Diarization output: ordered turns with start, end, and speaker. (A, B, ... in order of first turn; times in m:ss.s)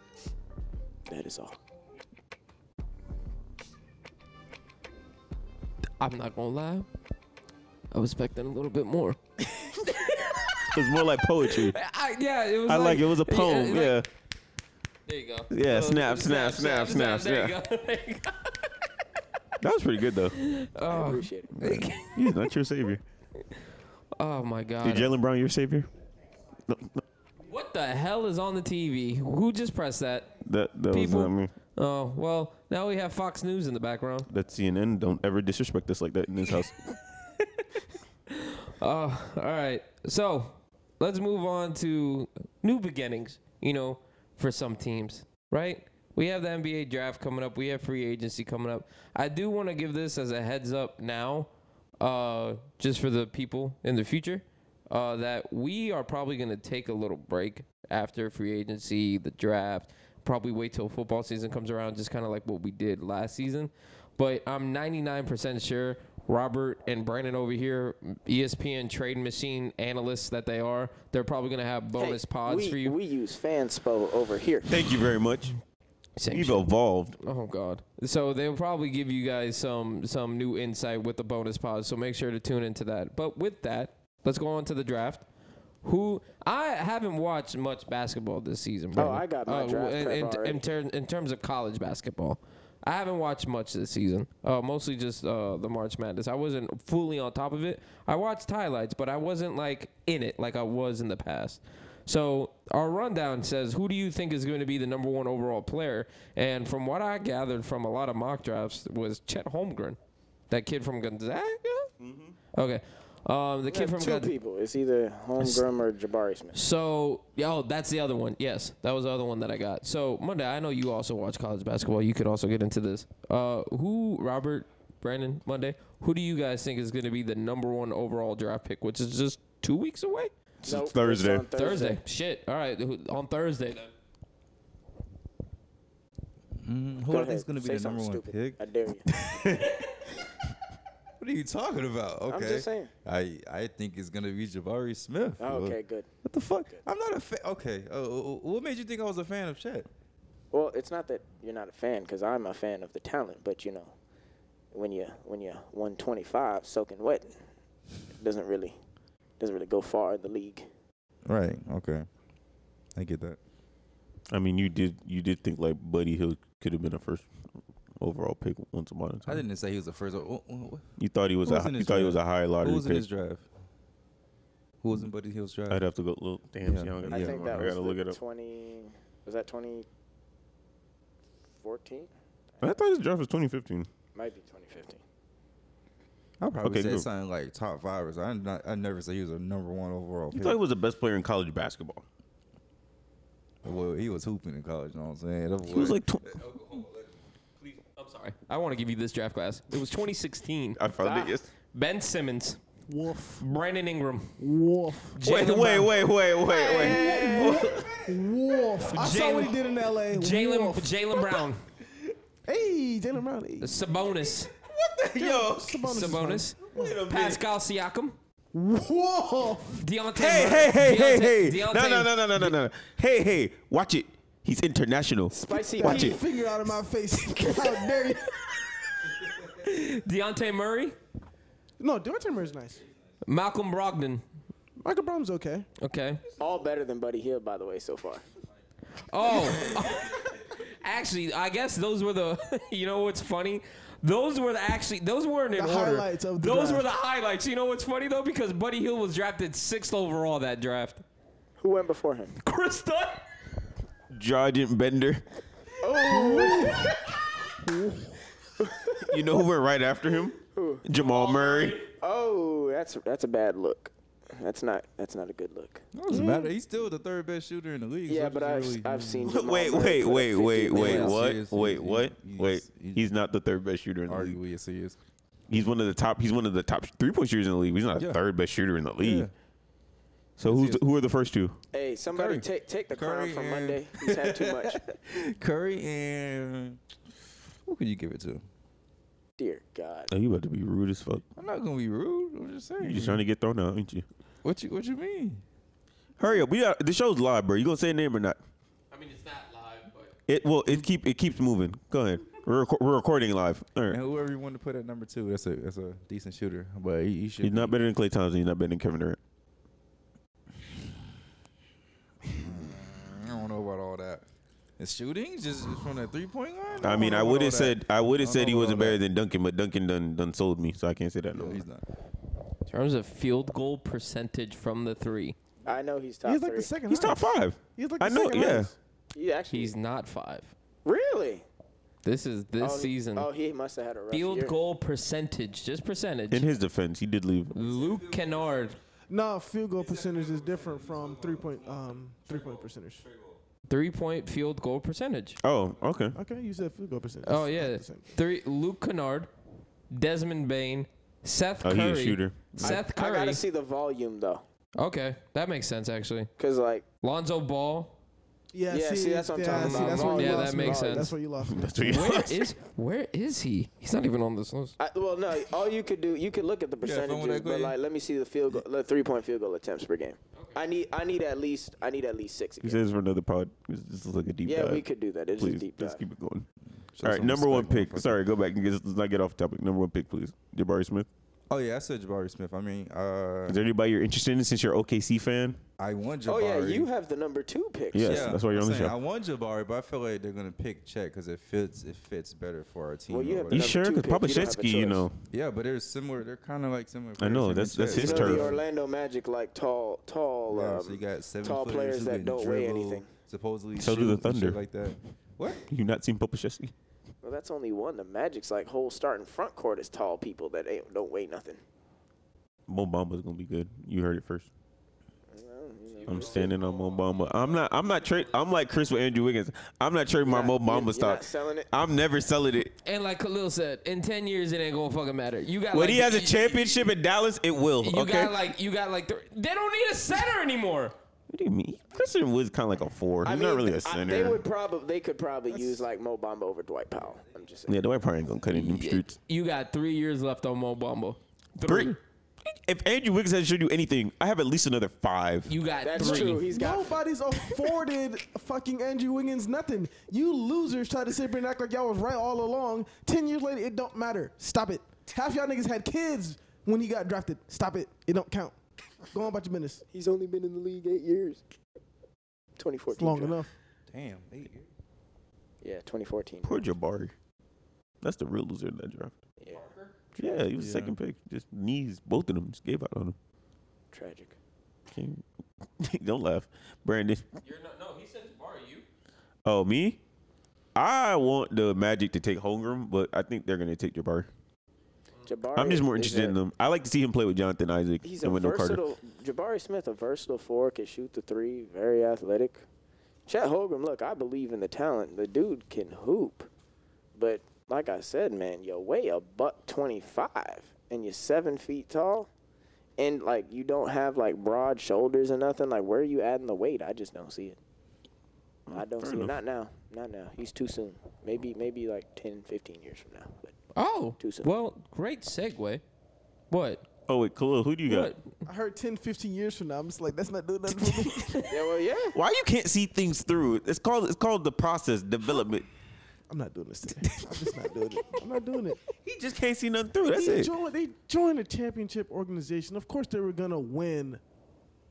0:01.1-0:01.6 A
0:06.0-0:06.9 B
0:07.9-0:10.8 B
0:10.7-0:11.8 C
0:11.4-0:14.0 B
0:12.7-0:14.1 C
0:15.1-0:18.7 B
0:15.5-0:17.6 C
0:19.6-0:20.4 C
0:20.3-0:22.5 B
0:20.9-0:21.5 A
0:21.6-0:23.0 C
0:24.2-0:25.1 B
0:24.8-0:25.9 C
0:26.7-0:27.0 C
0:27.5-0:30.3 B
0:30.4-0:31.5 C
0:30.9-0:34.3 B
0:34.3-0:36.8 C
0:38.3-0:51.5 B
0:52.0-1:13.0 B
1:12.0-1:14.8 A
1:14.7-1:15.5 C
1:16.2-1:16.7 B
1:16.3-1:17.2 C
1:17.2-1:25.2 B
1:25.8-1:50.0 B
1:28.9-1:30.6 A
1:50.5-1:51.9 B
1:52.0-1:52.4 C
1:52.6-1:54.3 B
1:53.7-1:56.6 A
1:55.4-1:55.6 B
1:56.5-2:10.3 B
2:10.6-2:11.5 C
2:10.6-2:12.0 A
2:11.5-2:13.9 B
2:16.6-2:18.6 D
2:17.1-2:19.1 A
2:19.2-2:19.7 C
2:21.2-2:29.9 D
2:22.3-2:22.9 A
2:25.4-2:26.1 A
2:30.5-2:33.9 A
2:34.7-2:37.4 A
2:38.2-2:38.8 A
2:39.4-2:40.7 A
2:41.3-2:42.1 D
2:43.0-2:43.4 D
2:44.3-2:47.3 C
2:48.0-2:49.4 C
2:49.3-2:50.9 D
2:51.0-2:53.0 C
2:51.4-2:53.4 D
2:54.8-2:55.8 D
2:55.7-2:58.2 C
2:56.7-2:57.7 D
2:57.1-2:59.9 A
3:01.6-3:02.1 A
3:02.6-3:03.9 C
3:04.2-3:05.0 A
3:06.4-3:10.6 D
3:06.6-3:07.1 C
3:10.3-3:12.0 C
3:13.6-3:17.2 D
3:15.7-3:16.4 C
3:17.6-3:22.6 B
3:20.8-3:21.5 C
3:22.9-3:23.4 E
3:23.4-3:24.4 B
3:24.4-3:25.2 E
3:25.2-3:26.0 B
3:25.2-3:28.1 C
3:26.5-3:27.7 A
3:26.7-3:31.4 E
3:28.9-3:31.6 B
3:32.5-3:33.8 E
3:33.6-3:34.5 B
3:34.6-3:36.1 C
3:35.2-3:37.0 E
3:35.8-3:38.2 B
3:36.6-3:37.4 C
3:38.5-3:39.8 E
3:39.7-3:42.5 B
3:40.2-3:46.2 C
3:45.3-3:46.3 A
3:45.5-3:48.4 E
3:49.4-3:51.0 B
3:51.8-3:52.8 E
3:53.3-3:54.2 B
3:54.8-3:55.7 E
3:55.8-3:56.2 B
3:56.4-3:58.2 A
3:59.0-4:11.0 B
4:05.6-4:06.9 E
4:11.6-4:12.4 A
4:12.4-4:13.2 B
4:14.1-4:15.2 C
4:15.8-4:16.9 A
4:16.1-4:16.9 E
4:17.6-4:18.2 E
4:18.6-4:19.2 A
4:19.0-4:21.8 C
4:20.5-4:20.8 A
4:20.9-4:21.9 B
4:22.0-4:25.8 A
4:25.9-4:29.4 D
4:26.1-4:26.5 E
4:28.1-4:31.3 A
4:29.3-4:34.4 C
4:30.7-4:33.1 D
4:34.1-4:35.0 D
4:35.5-4:39.3 C
4:39.0-4:39.3 D
4:40.4-4:41.6 C
4:40.4-4:40.8 D
4:41.7-4:44.9 A
4:42.1-4:46.8 D
4:47.6-4:48.4 D
4:49.4-4:50.1 A
4:50.1-4:51.2 C
4:51.4-4:53.2 D
4:52.8-4:54.0 C
4:54.4-4:55.4 D
4:56.2-4:58.4 C
4:58.9-5:00.1 B
5:00.3-5:04.0 C
5:03.9-5:07.8 D
5:07.4-5:09.2 C
5:12.4-5:14.2 D
5:14.8-5:19.0 D
5:16.8-5:17.3 E
5:16.8-5:21.6 C
5:21.3-5:21.8 D
5:22.7-5:25.4 B
5:25.6-5:26.8 A
5:26.2-5:28.8 E
5:26.9-5:28.7 C
5:29.1-5:29.7 A
5:29.5-5:30.5 B
5:30.8-5:31.5 A
5:32.0-5:33.3 B
5:32.6-5:34.6 A
5:34.1-5:36.5 B
5:36.3-5:37.5 C
5:37.5-5:38.8 B
5:37.6-5:38.4 D
5:39.1-5:43.0 E
5:39.8-5:43.4 D
5:43.7-5:45.4 B
5:45.4-5:46.2 C
5:46.2-5:48.2 E
5:47.2-5:49.3 B
5:49.9-5:53.4 B
5:51.6-5:52.8 C
5:52.6-5:54.4 A
5:54.8-5:56.3 B
5:56.4-5:56.9 A
5:57.0-5:58.0 B
5:58.5-6:01.8 E
5:58.7-6:01.1 A
5:59.5-6:01.1 B
6:01.5-6:02.5 C
6:01.8-6:04.8 B
6:04.8-6:12.8 A
6:06.8-6:07.8 D
6:12.6-6:14.8 C
6:14.4-6:16.0 A
6:15.4-6:16.5 C
6:16.9-6:18.2 D
6:17.0-6:21.1 C
6:21.5-6:23.6 D
6:23.5-6:25.6 C
6:25.8-6:26.9 D
6:26.3-6:28.4 A
6:27.9-6:29.0 C
6:28.0-6:33.8 D
6:33.1-6:35.1 A
6:33.5-6:35.2 C
6:35.3-6:38.6 D
6:37.2-6:38.5 C
6:37.9-6:43.1 A
6:40.5-6:45.6 D
6:43.8-6:44.6 C
6:45.6-6:46.7 C
6:47.2-6:51.6 A
6:52.7-6:54.5 C
6:55.3-6:56.5 A
6:55.9-6:58.5 B
6:56.1-7:02.7 C
7:00.2-7:01.7 A
7:02.8-7:06.9 B
7:05.7-7:08.4 C
7:07.8-7:11.0 B
7:11.3-7:14.4 C
7:13.2-7:17.8 A
7:17.7-7:19.2 C
7:18.5-7:22.0 B
7:21.7-7:22.0 C
7:22.6-7:25.5 C
7:25.5-7:26.4 B
7:25.8-7:27.0 A
7:26.0-7:38.6 E
7:39.1-7:39.8 E
7:39.9-7:41.4 A
7:42.6-7:43.4 A
7:42.9-7:43.5 E
7:43.9-7:44.7 D
7:45.6-7:46.7 A
7:46.4-7:47.1 C
7:48.0-7:49.1 C
7:49.4-7:50.5 A
7:49.5-7:49.9 B
7:50.2-7:53.2 C
7:50.6-7:51.0 D
7:53.9-7:54.4 A
7:54.9-7:55.2 C
7:55.8-7:57.2 C
7:57.4-7:58.8 B
7:59.4-8:00.0 C
8:00.8-8:04.3 C
8:05.3-8:06.4 A
8:05.6-8:08.8 C
8:08.0-8:12.6 A
8:13.3-8:16.5 A
8:17.2-8:22.3 A
8:23.0-8:27.6 A
8:28.7-8:29.4 C
8:28.7-8:33.5 A
8:33.8-8:35.8 B
8:34.2-8:34.5 A
8:36.5-8:36.8 B
8:37.1-8:38.1 C
8:37.9-8:38.3 B
8:38.5-8:41.5 E
8:41.1-8:41.5 B
8:41.5-8:42.2 A
8:42.1-8:45.7 C
8:46.3-8:48.8 E
8:47.0-8:47.5 C
8:49.0-8:50.5 C
8:50.1-8:54.2 E